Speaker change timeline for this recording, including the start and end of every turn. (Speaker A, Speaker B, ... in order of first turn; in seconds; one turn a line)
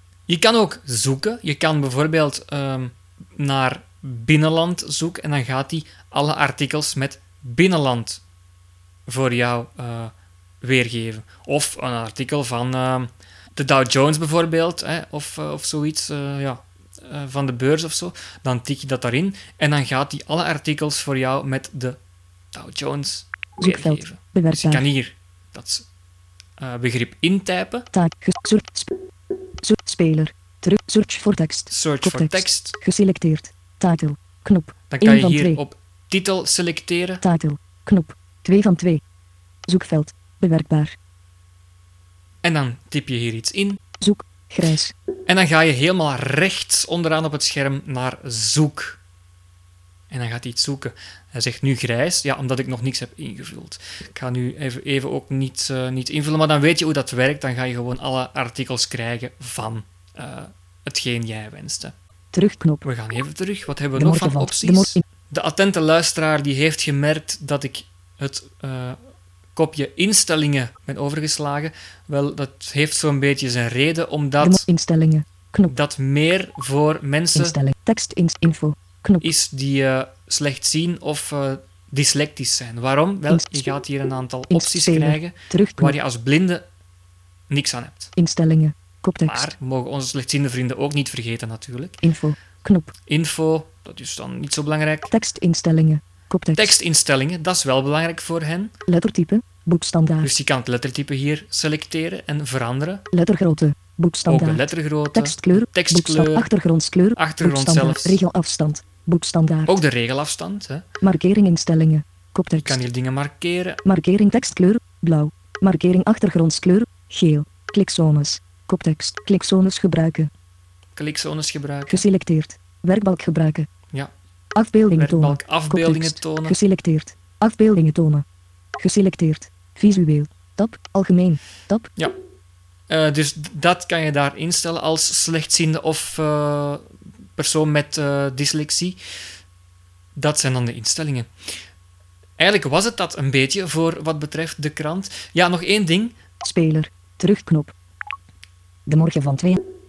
Speaker A: 0.3-8.2
Speaker A: 9.1-22.0
Speaker A: 22.5-25.9
Speaker B: 23.6-24.8
Speaker A: 26.6-27.9
Speaker B: 27.9-29.0
Speaker B: 29.6-35.6
Speaker A: 31.7-32.8
Speaker A: 34.9-37.2
Speaker B: 37.2-39.0
Speaker B: 39.7-41.0
Speaker A: 42.4-43.8
Speaker B: 44.0-44.9
Speaker A: 45.3-49.0
Speaker A: 50.1-61.9
Speaker B: 62.3-62.8
Speaker A: 62.8-69.0
Speaker B: 64.0-65.0
Speaker A: 69.5-74.7
Speaker B: 74.4-75.7
Speaker A: 75.6-77.6
Speaker B: 77.3-79.2
Speaker A: 79.2-86.6
Speaker B: 83.3-83.7
Speaker B: 84.5-85.9
Speaker A: 87.5-88.1
Speaker B: 88.2-89.5
Speaker A: 89.2-92.0
Speaker B: 92.0-92.9
Speaker A: 93.1-95.1
Speaker B: 95.1-96.7
Speaker A: 96.5-98.7
Speaker B: 98.9-100.3
Speaker A: 100.2-103.0
Speaker B: 103.1-104.6
Speaker A: 104.2-106.5
Speaker B: 105.1-109.7
Speaker A: 107.2-108.2
Speaker A: 109.7-110.8
Speaker B: 111.0-112.8
Speaker A: 112.6-113.8
Speaker B: 113.8-120.3
Speaker A: 120.9-122.1
Speaker B: 121.9-123.7
Speaker B: 124.5-128.2
Speaker A: 124.9-126.6
Speaker B: 128.8-131.9
Speaker A: 132.9-139.0
Speaker A: 140.2-141.3
Speaker A: 142.4-146.2
Speaker B: 146.4-147.7
Speaker B: 148.9-149.6